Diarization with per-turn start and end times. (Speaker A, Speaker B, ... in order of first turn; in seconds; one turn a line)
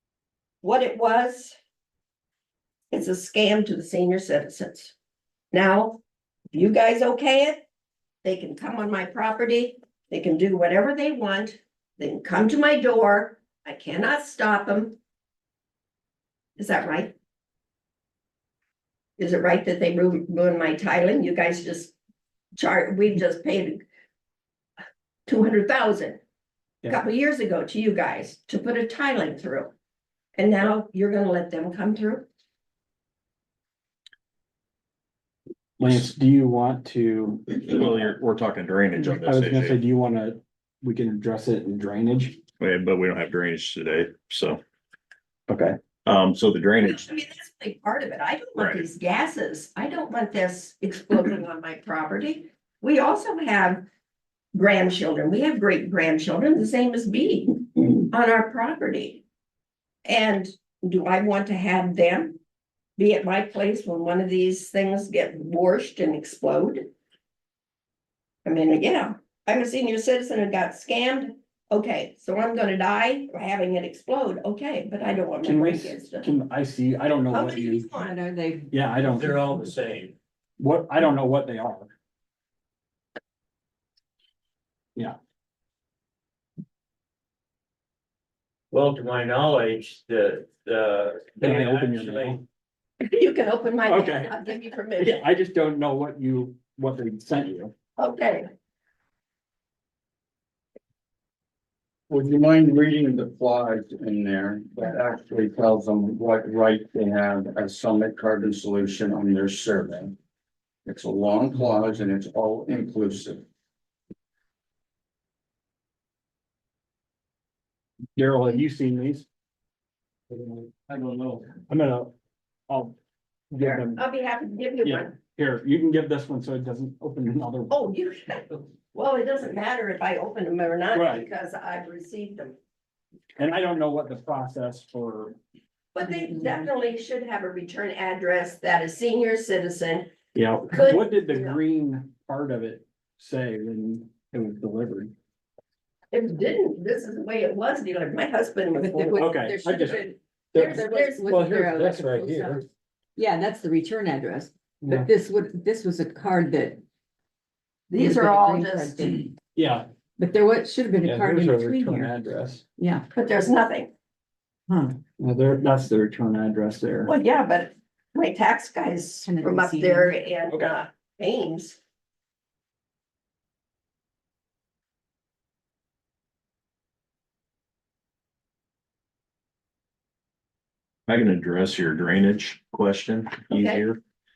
Speaker A: 0.6-1.6
Speaker A: 2.9-4.9
Speaker A: 5.5-6.0
Speaker A: 6.5-7.6
Speaker A: 8.2-15.0
Speaker A: 16.6-17.1
Speaker A: 19.2-21.9
Speaker A: 22.6-23.8
Speaker A: 25.3-26.2
Speaker A: 26.9-29.7
Speaker A: 30.4-32.3
Speaker B: 35.8-37.8
Speaker C: 37.5-39.8
Speaker B: 39.0-42.4
Speaker C: 42.6-44.6
Speaker B: 45.5-45.8
Speaker C: 46.0-47.0
Speaker A: 46.8-53.9
Speaker C: 48.6-48.8
Speaker A: 54.5-59.2
Speaker A: 60.0-62.4
Speaker A: 63.0-66.9
Speaker A: 68.5-76.3
Speaker B: 75.4-78.1
Speaker A: 77.3-78.2
Speaker D: 78.1-78.7
Speaker B: 78.7-79.5
Speaker E: 79.0-80.2
Speaker B: 80.6-81.9
Speaker E: 88.7-92.4
Speaker B: 91.4-92.4
Speaker A: 93.0-95.2
Speaker B: 93.9-94.4
Speaker B: 95.0-97.7
Speaker A: 98.0-98.5
Speaker F: 102.1-110.2
Speaker F: 110.8-113.5
Speaker B: 118.2-119.3
Speaker E: 120.9-121.4
Speaker B: 121.6-122.1
Speaker B: 122.7-122.9
Speaker B: 123.5-124.0
Speaker A: 123.6-125.2
Speaker B: 124.8-127.8
Speaker A: 127.7-132.6
Speaker B: 130.9-131.3
Speaker B: 133.4-135.4
Speaker A: 135.9-140.1
Speaker B: 140.3-145.1
Speaker A: 140.7-141.6
Speaker A: 146.1-149.2
Speaker D: 148.8-156.8
Speaker B: 148.9-152.7
Speaker A: 150.6-151.4
Speaker B: 154.8-155.1
Speaker A: 157.9-159.3
Speaker D: 157.9-159.3
Speaker B: 159.6-159.9
Speaker D: 160.2-162.2
Speaker B: 161.0-162.7
Speaker D: 162.8-163.1
Speaker A: 163.1-163.9
Speaker B: 164.7-167.1
Speaker A: 167.1-171.8
Speaker D: 169.2-170.2
Speaker B: 170.5-170.8
Speaker C: 181.1-184.0
Speaker A: 183.5-183.8